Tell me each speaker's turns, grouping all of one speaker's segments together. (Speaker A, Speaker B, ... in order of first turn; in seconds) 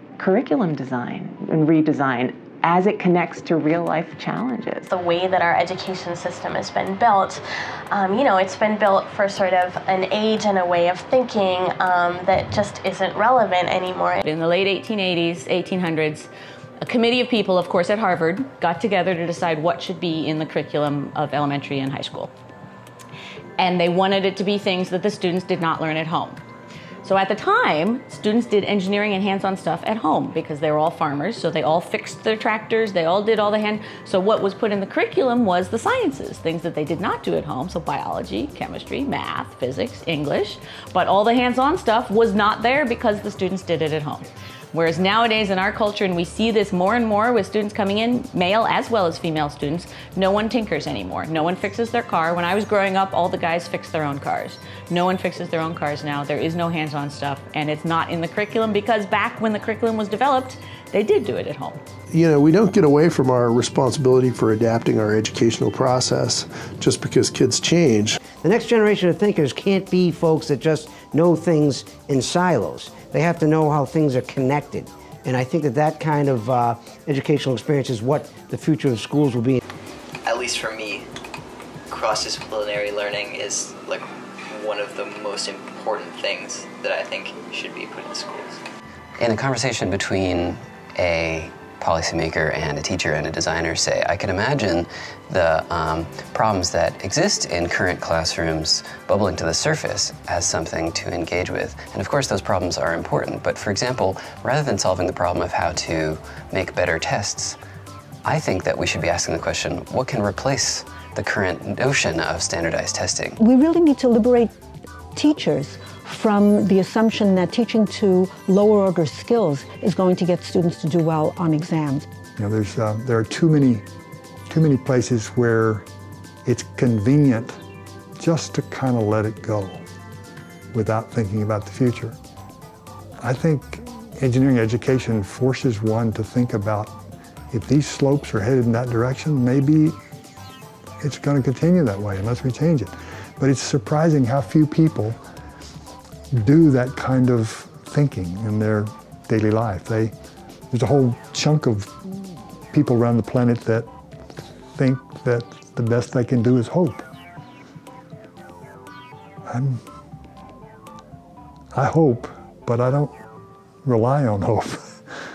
Speaker A: 0.2-4.9
Speaker B: 4.9-14.2
Speaker C: 14.2-16.3, 16.8-22.3, 23.6-26.4, 27.0-61.8
Speaker D: 62.1-68.1
Speaker E: 68.3-79.6
Speaker F: 80.2-81.0, 81.9-88.6
Speaker G: 89.2-107.6, 108.2-113.4
Speaker H: 113.4-114.5, 115.1-122.1
Speaker I: 122.4-123.8, 124.5-125.9, 126.5-127.6, 128.2-129.8, 130.7-132.2, 133.2-136.9, 137.5-140.0, 141.0-145.2, 146.3-150.1, 150.7-151.9, 152.7-153.9, 154.7-157.1, 159.5-159.8, 161.7-163.1, 163.8-165.0